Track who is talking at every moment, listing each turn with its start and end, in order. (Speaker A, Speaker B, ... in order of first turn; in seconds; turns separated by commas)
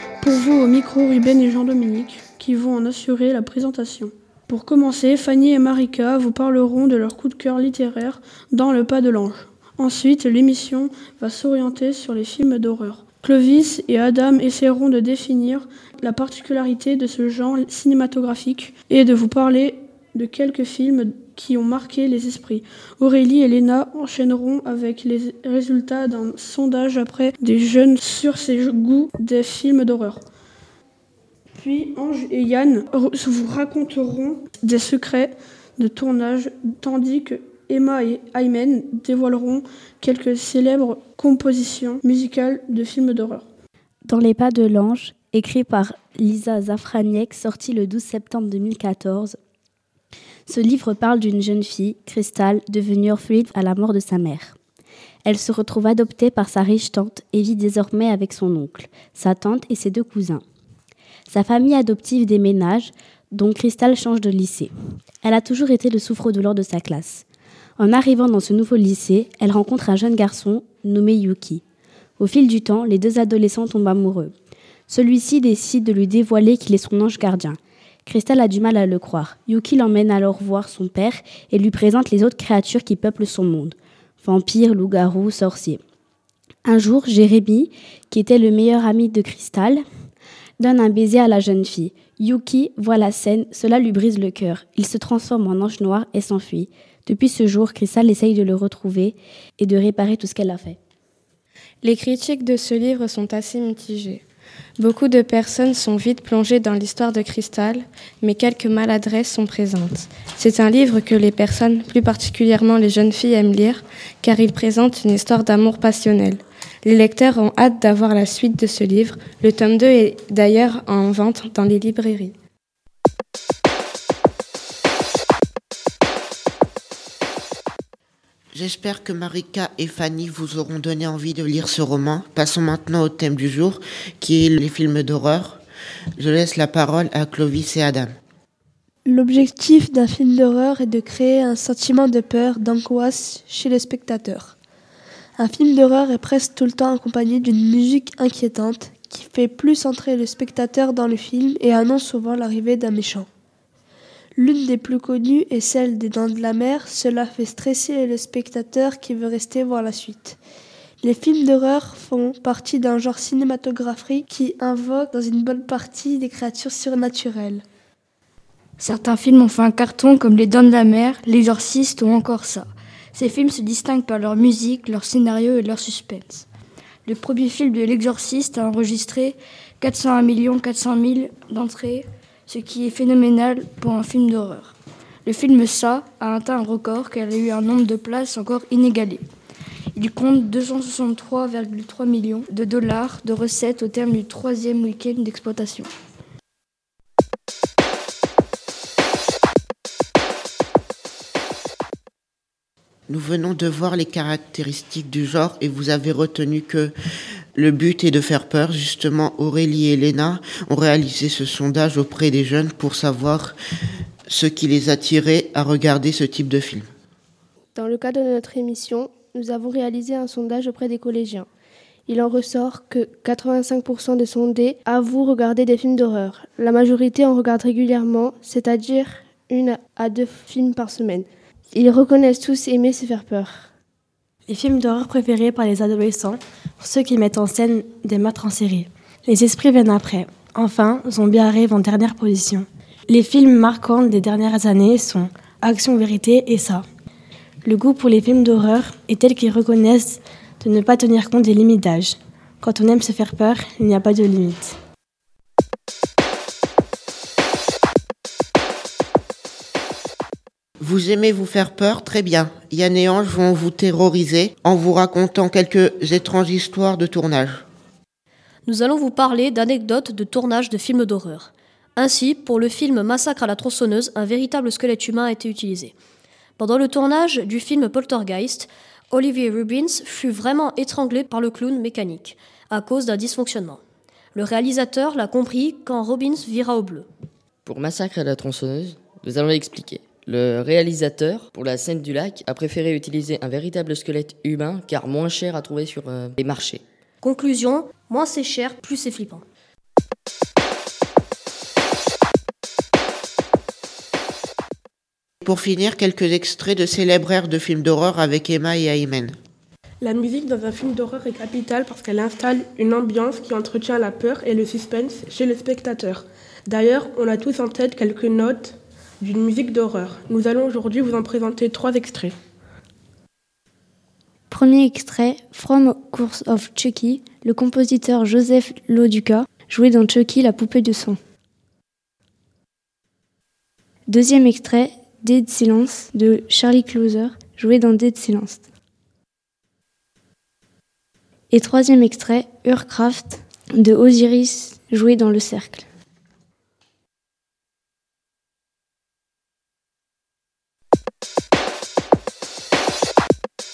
Speaker A: 0.2-30.2, Speaker A: 31.6-43.4, Speaker B: 44.0-49.4, Speaker B: 50.5-54.6, Speaker B: 55.2-60.4, Speaker B: 61.3-64.7, Speaker B: 65.2-67.2, Speaker B: 67.8-71.6, Speaker B: 72.2-74.3, Speaker B: 74.9-85.8, Speaker B: 86.6-89.8, Speaker B: 90.6-100.8, Speaker C: 101.8-104.2, Speaker C: 104.8-122.3, Speaker D: 128.5-135.6, Speaker D: 136.2-138.1, Speaker E: 139.1-144.5, Speaker E: 145.4-153.3, Speaker E: 154.3-160.4, Speaker E: 161.0-167.6, Speaker F: 168.8-176.4, Speaker F: 177.0-189.2, Speaker F: 189.9-195.9, Speaker D: 203.1-206.9, Speaker D: 207.5-213.6, Speaker D: 214.3-216.9, Speaker G: 217.8-221.5, Speaker G: 222.1-233.7, Speaker H: 234.5-246.8, Speaker H: 247.6-254.7, Speaker D: 260.8-267.6, Speaker I: 268.7-275.9, Speaker I: 276.6-283.8, Speaker I: 284.3-287.0, Speaker J: 287.7-296.8, Speaker I: 297.2-299.4, Speaker D: 305.4-309.4, Speaker K: 310.0-322.3, Speaker C: 324.5-331.2, Speaker C: 334.1-338.6, Speaker C: 341.5-345.8